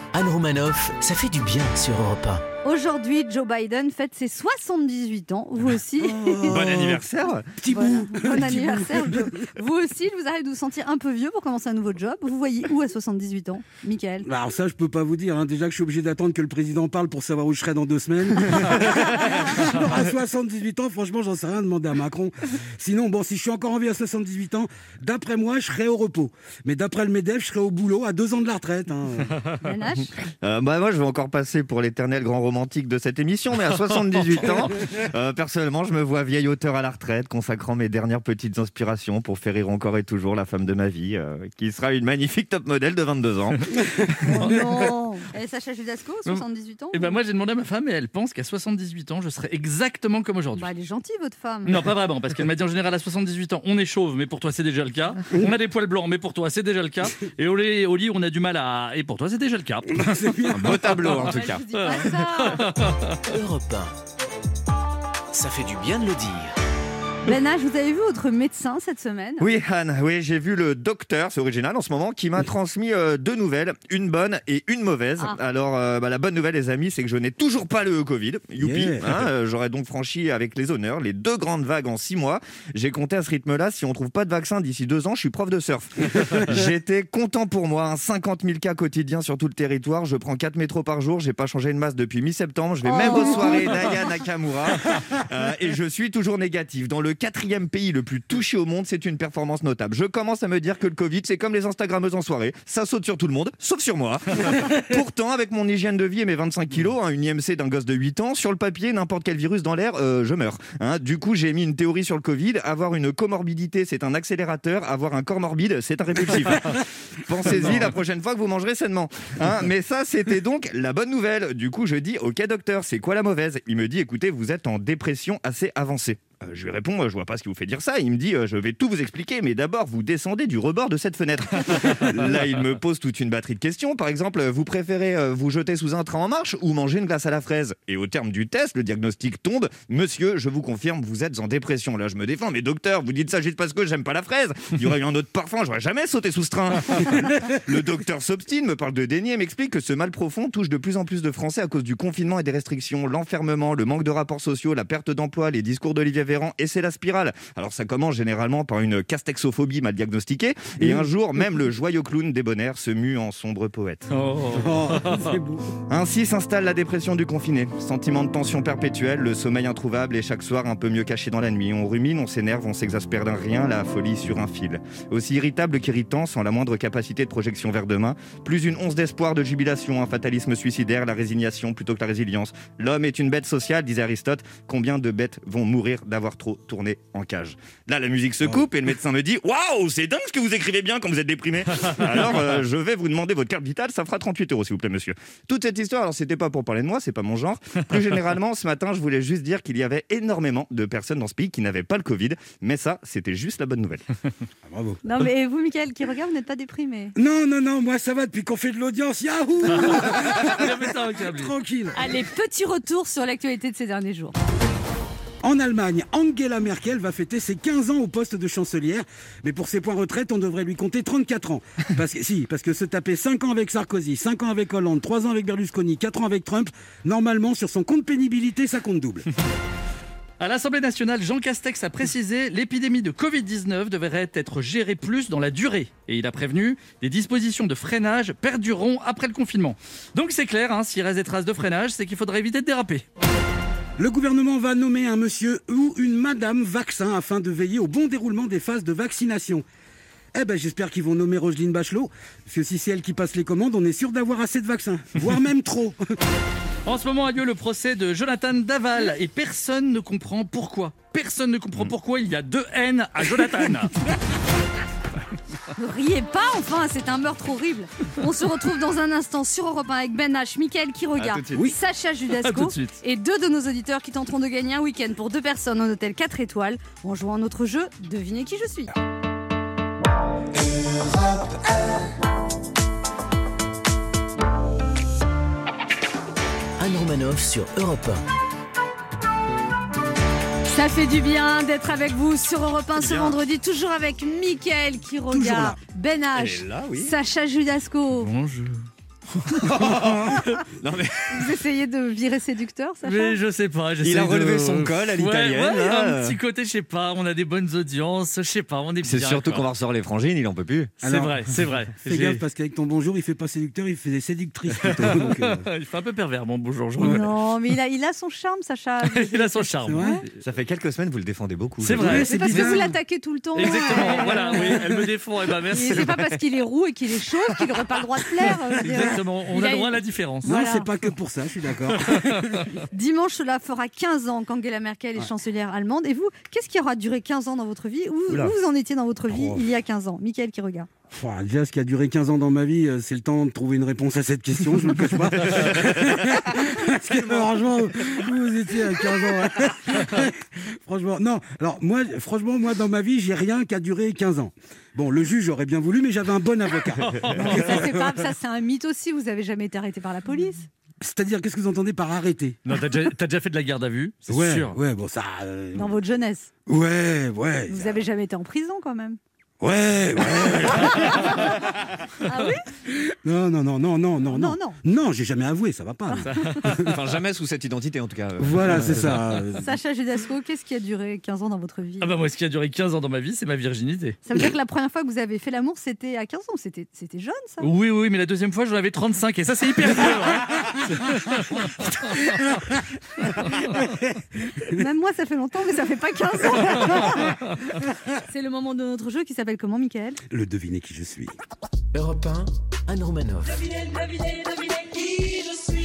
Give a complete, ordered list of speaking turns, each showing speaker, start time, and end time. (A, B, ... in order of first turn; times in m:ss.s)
0:00.1-0:02.4 A
0:02.6-0:06.6 B
0:06.0-0:07.0 C
0:06.5-0:07.5 D
0:07.6-0:09.3 C
0:07.7-0:14.3 B
0:14.2-0:29.4 C
0:29.6-0:30.1 B
0:30.4-0:43.7 D
0:44.2-0:47.2 B
0:46.9-0:50.7 E
0:50.6-0:51.8 B
0:51.6-1:01.2 E
0:59.9-1:00.8 C
1:00.5-1:02.1 D
1:01.0-1:02.7 B
1:01.7-1:03.2 E
1:03.2-1:03.9 A
1:05.3-1:06.5 A
1:07.2-1:09.5 B
1:09.4-2:44.1 D
1:18.6-1:19.2 C
1:26.1-1:26.6 C
1:32.8-1:34.0 B
2:40.8-2:41.1 C
2:44.1-2:45.3 E
2:44.5-2:45.6 C
2:45.9-3:24.0 D
3:24.6-3:25.0 C
3:25.0-3:27.1 B
3:27.2-3:32.0 C
3:29.7-3:31.5 E
3:32.0-3:34.3 B
3:35.4-3:49.3 C
3:50.4-4:03.0 E
4:04.0-4:09.6 C
4:10.3-4:16.1 C
4:16.8-4:23.9 E
4:25.8-4:38.9 B
4:31.1-4:31.7 D
4:32.4-4:33.0 E
4:40.9-4:41.6 C
4:46.8-4:48.2 A
4:50.6-4:58.3 B
4:53.0-4:53.4 D
4:55.3-4:55.8 C
4:56.3-4:57.1 D
4:58.2-4:58.8 E
4:59.4-5:01.5 D
4:59.7-5:00.5 C
5:01.3-5:03.4 B
5:03.0-5:09.6 E
5:04.0-5:06.4 D
5:09.0-5:10.9 D
5:11.0-5:12.4 E
5:11.0-5:11.4 C
5:12.0-5:15.6 C
5:14.8-5:17.3 E
5:17.0-5:17.2 C
5:17.0-5:20.2 B
5:19.0-5:20.4 E
5:19.8-5:20.2 C
5:20.4-5:22.6 D
5:21.8-5:22.7 E
5:22.0-5:23.0 C
5:22.2-5:24.8 B
5:23.5-5:26.3 E
5:23.6-5:24.8 C
5:25.7-5:30.9 B
5:28.8-5:29.2 C
5:28.8-5:30.5 E
5:30.4-5:32.7 C
5:31.9-5:32.6 E
5:32.9-5:40.9 B
5:39.3-5:39.6 C
5:41.1-5:58.3 C
5:45.6-5:46.4 D
5:57.0-5:57.7 E
5:57.5-6:00.7 B
6:01.0-6:02.6 C
6:02.6-6:04.8 E
6:04.3-6:05.9 C
6:05.7-6:06.5 B
6:06.7-6:07.9 C
6:07.7-6:09.2 B
6:09.6-6:11.5 C
6:10.9-6:11.5 B
6:12.2-6:12.6 B
6:12.9-6:16.9 C
6:14.3-6:14.8 B
6:16.2-6:16.9 E
6:16.7-6:19.2 D
6:18.4-6:19.7 C
6:19.6-6:22.1 B
6:22.0-6:24.2 E
6:24.2-6:27.7 B
6:27.6-6:32.1 E
6:32.3-6:32.6 C
6:33.5-6:34.0 C
6:34.7-6:37.4 B
6:38.2-6:40.2 B
6:40.3-6:41.4 C
6:41.9-6:43.6 A